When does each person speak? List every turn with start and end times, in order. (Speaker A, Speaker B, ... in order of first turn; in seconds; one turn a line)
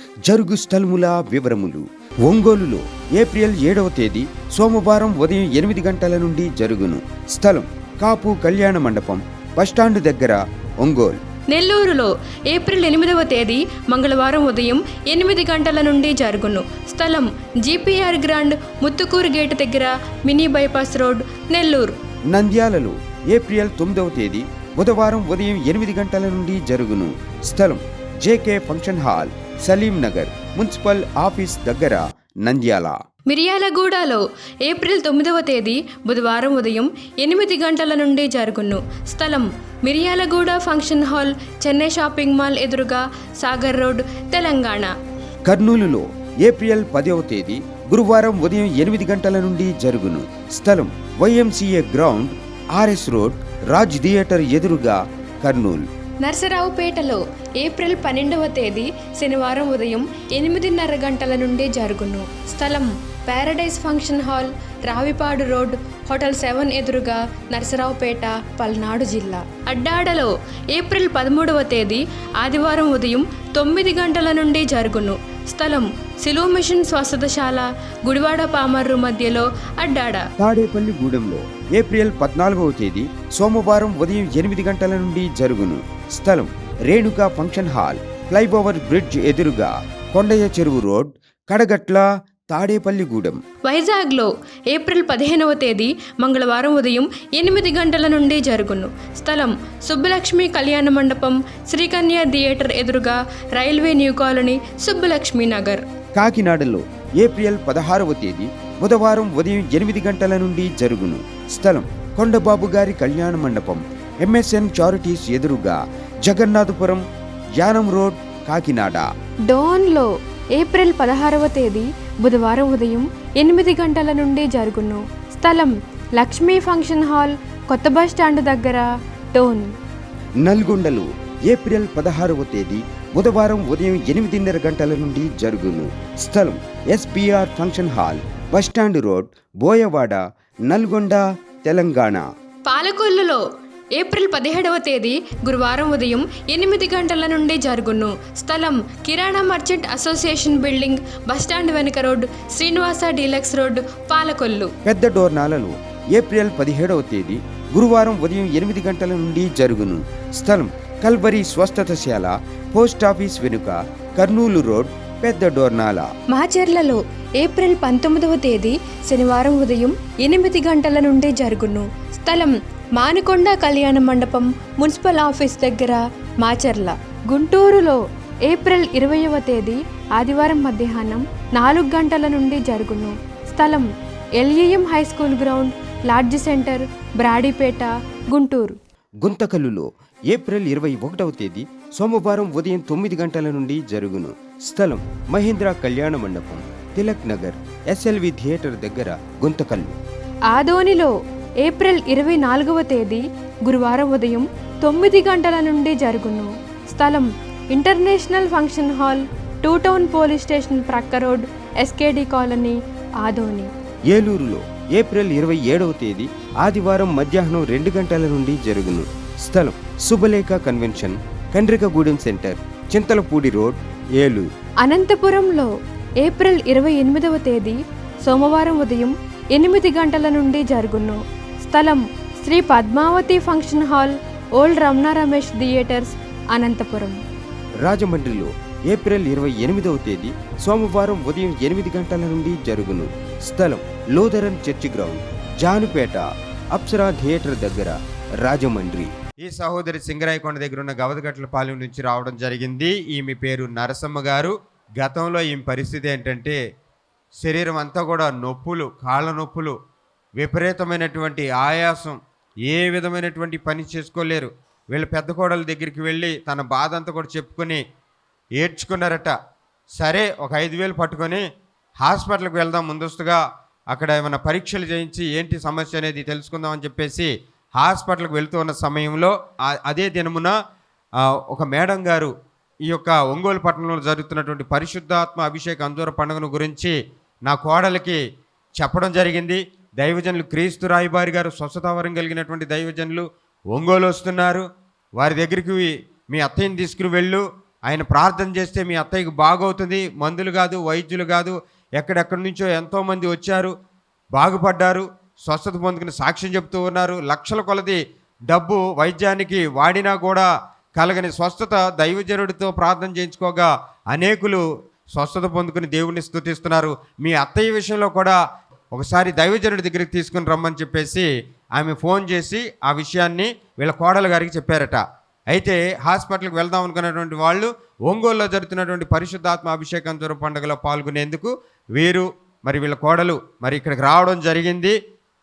Speaker A: 0.3-11.2
Speaker B: 11.5-21.9
Speaker A: 22.3-33.0
Speaker B: 33.3-44.9
Speaker A: 45.5-55.8
Speaker B: 56.2-80.2
Speaker A: 80.4-93.4
Speaker B: 93.7-105.8
Speaker A: 106.2-115.8
Speaker A: 116.3-117.0
Speaker A: 117.6-119.0
Speaker B: 119.5-129.7
Speaker A: 130.4-142.2
Speaker B: 142.7-143.4
Speaker B: 143.9-154.7
Speaker A: 154.8-166.1
Speaker B: 166.3-183.9
Speaker B: 184.4-188.8
Speaker A: 189.2-199.9
Speaker B: 200.5-201.1
Speaker B: 201.6-213.7
Speaker A: 214.1-224.4
Speaker B: 224.8-225.7
Speaker B: 226.2-237.2
Speaker A: 237.8-246.2
Speaker A: 246.7-249.1
Speaker C: 249.4-256.6
Speaker C: 257.4-259.8
Speaker C: 260.4-267.8
Speaker C: 268.6-269.3
Speaker C: 270.0-271.4
Speaker C: 272.0-273.4
Speaker C: 273.9-280.5
Speaker C: 281.5-282.3
Speaker C: 282.9-288.2
Speaker C: 288.8-294.6
Speaker C: 295.2-303.7
Speaker C: 304.4-314.6
Speaker C: 315.1-318.4
Speaker C: 318.9-334.9